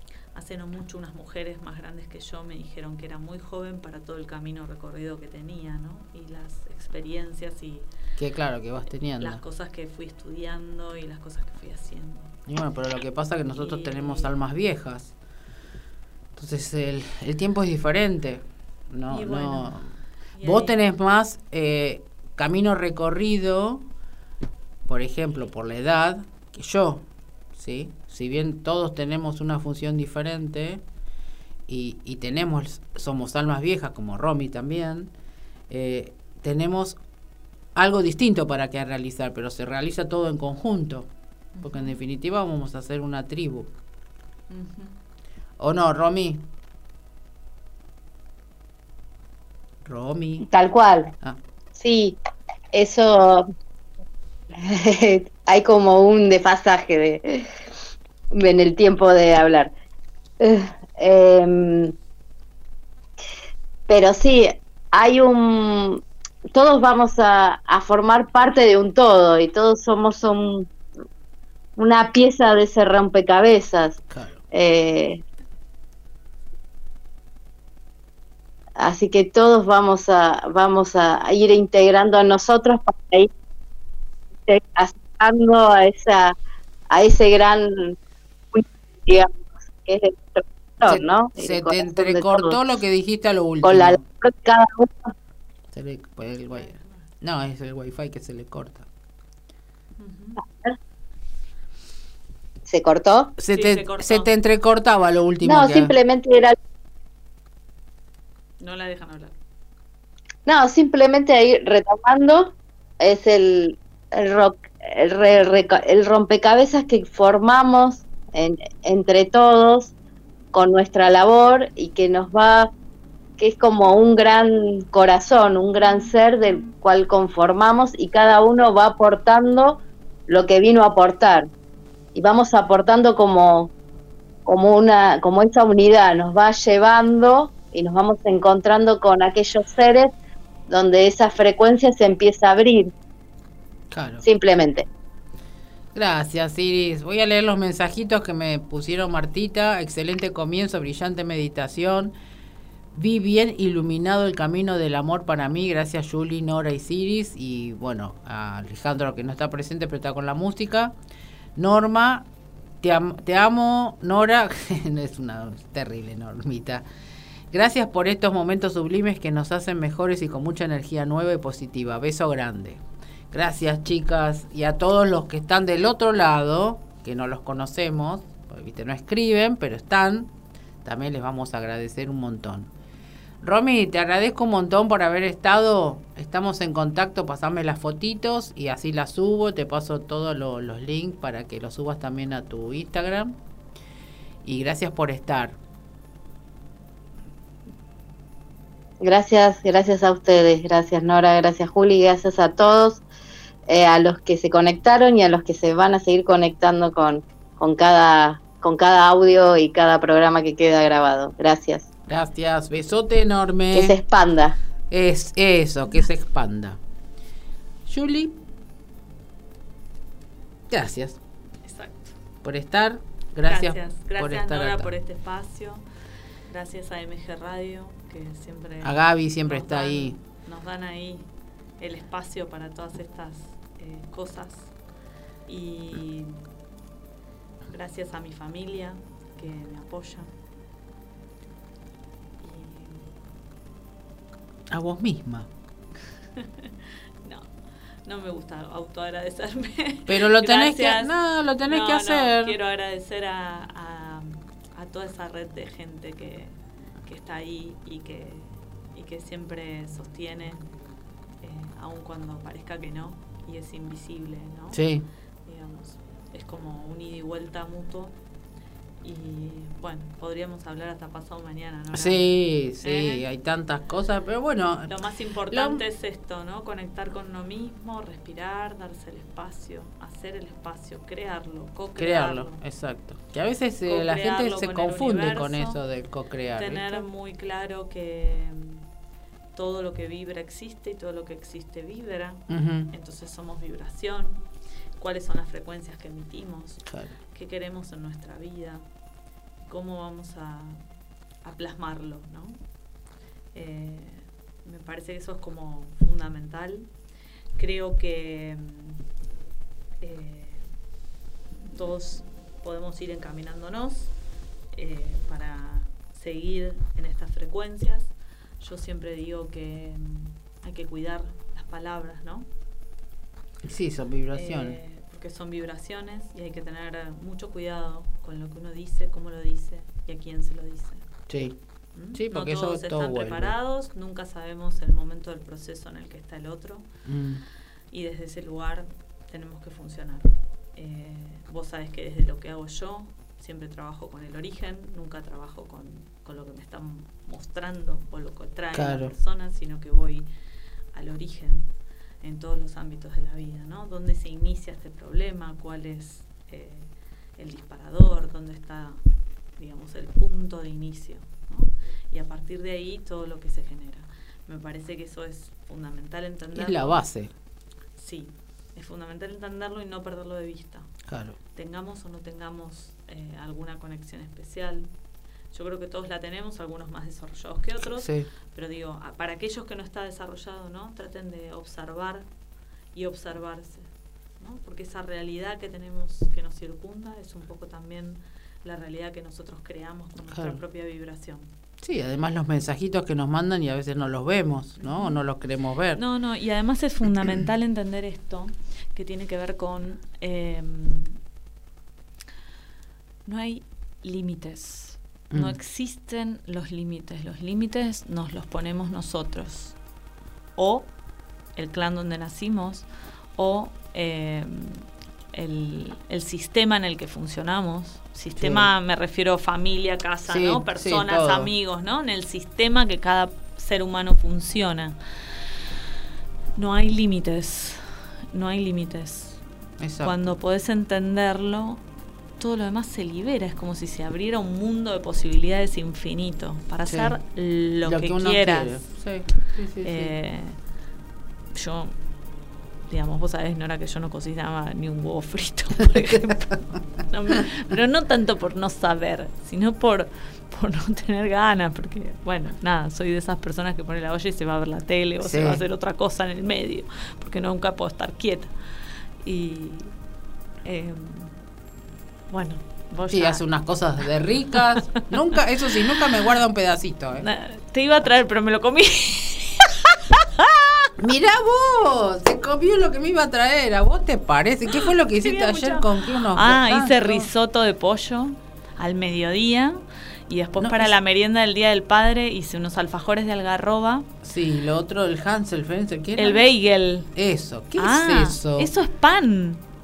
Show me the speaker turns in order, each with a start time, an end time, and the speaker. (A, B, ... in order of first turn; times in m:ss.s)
0:00.3-0:07.9 A
0:08.2-0:09.4 B
0:09.2-0:12.3 A
0:12.5-0:15.1 B
0:13.6-0:14.3 A
0:16.3-0:23.8 B
0:19.1-0:19.8 A
0:20.3-0:20.8 A
0:24.9-0:30.8 B
0:31.7-0:35.1 B
0:35.7-0:37.0 B
0:37.7-0:41.1 B
0:41.5-0:42.0 A
0:41.6-0:43.7 B
0:44.5-0:45.0 A
0:45.6-0:46.4 B
0:49.8-0:50.5 B
0:50.5-0:51.1 C
0:51.7-0:52.2 C
0:52.7-0:53.5 C
0:54.5-0:57.5 C
0:58.3-0:59.7 C
1:00.4-1:01.9 C
1:03.9-1:06.0 C
1:06.5-1:10.7 C
1:11.8-1:15.2 C
1:14.1-1:14.4 B
1:18.8-1:23.3 C
1:24.4-1:26.4 C
1:26.9-1:28.0 C
1:28.5-1:29.3 C
1:29.8-1:32.6 C
1:30.8-1:34.0 B
1:33.6-1:35.1 C
1:35.7-1:38.8 B
1:36.5-1:37.0 A
1:40.0-1:40.4 A
1:40.4-1:40.8 C
1:42.6-1:43.3 C
1:43.4-1:45.9 B
1:43.5-1:44.3 A
1:45.4-1:46.6 C
1:48.6-1:49.3 A
1:50.4-1:59.9 C
2:00.5-2:02.7 C
2:03.4-2:11.5 C
2:12.1-2:13.7 C
2:14.4-2:20.1 C
2:20.7-2:22.9 C
2:23.9-2:24.2 B
2:24.2-2:24.9 C
2:25.9-2:32.1 B
2:32.9-2:40.9 B
2:41.6-2:42.3 B
2:42.8-2:46.8 B
2:47.5-3:00.3 B
3:00.8-3:02.7 B
3:03.4-3:13.4 B
3:14.4-3:15.6 B
3:19.0-3:23.0 C
3:23.7-3:31.9 C
3:32.1-3:34.0 B
3:33.7-3:34.6 C
3:34.9-3:36.8 B
3:37.8-3:38.4 B
3:40.7-3:41.2 B
3:41.6-3:42.1 A
3:42.4-3:44.9 B
3:43.4-3:45.8 A
3:46.5-3:51.3 A
3:48.8-3:50.2 B
3:51.8-3:54.7 A
3:55.5-3:56.4 A
3:57.7-4:00.3 A
4:02.4-4:03.1 A
4:04.7-4:05.5 B
4:06.4-4:07.5 A
4:08.0-4:20.6 A
4:10.1-4:12.5 B
4:21.4-4:24.8 A
4:24.7-4:25.0 B
4:25.4-4:28.2 A
4:29.0-4:32.3 A
4:31.9-4:34.9 B
4:32.8-4:33.2 A
4:34.9-4:42.6 A
4:35.5-4:35.8 B
4:42.0-4:47.0 B
4:43.8-4:45.8 A
4:46.5-4:48.8 A
4:49.5-4:54.5 A
4:52.5-4:52.9 B
4:55.0-4:58.8 A
4:56.9-4:57.1 B
4:59.6-5:00.9 A
5:01.4-5:02.6 A
5:03.5-5:06.9 A
5:07.6-5:09.0 A
5:10.0-5:10.7 A
5:11.7-5:14.1 A
5:14.7-5:22.5 A
5:23.6-5:24.8 B
5:24.3-5:31.0 A
5:31.3-5:31.6 B
5:31.9-5:36.9 A
5:32.1-5:33.5 B
5:37.0-5:37.4 B
5:37.9-5:50.3 A
5:48.7-5:49.1 B
5:50.9-5:59.0 A
5:59.6-6:07.0 A
6:06.5-6:07.3 B
6:08.0-6:10.9 A
6:11.1-6:11.4 B
6:11.5-6:14.9 A
6:15.5-6:22.3 A
6:18.0-6:18.3 B
6:22.9-6:31.5 A
6:30.3-6:30.6 B
6:31.8-6:36.0 B
6:34.8-6:35.1 A
6:35.9-6:41.2 A
6:43.2-6:49.8 A
6:50.6-6:50.9 A
6:51.6-7:05.0 A
6:58.4-6:58.7 B
7:00.3-7:01.5 B
7:06.6-7:09.4 A
7:09.8-7:10.2 B
7:10.0-7:11.8 A
7:12.4-7:18.9 A
7:16.9-7:17.1 B
7:17.8-7:20.1 B
7:19.8-7:20.6 A
7:21.5-7:22.0 A
7:22.9-7:38.5 A
7:35.2-7:35.6 B
7:39.2-7:39.9 A
7:40.6-7:41.4 A
7:42.3-7:43.4 A
7:43.1-7:47.2 B
7:47.2-7:50.9 A
7:51.0-7:57.3 B
7:55.1-8:04.1 A
8:00.6-8:00.9 B
8:04.2-8:06.5 B
8:06.2-8:07.1 A
8:07.1-8:08.7 B
8:07.8-8:09.6 A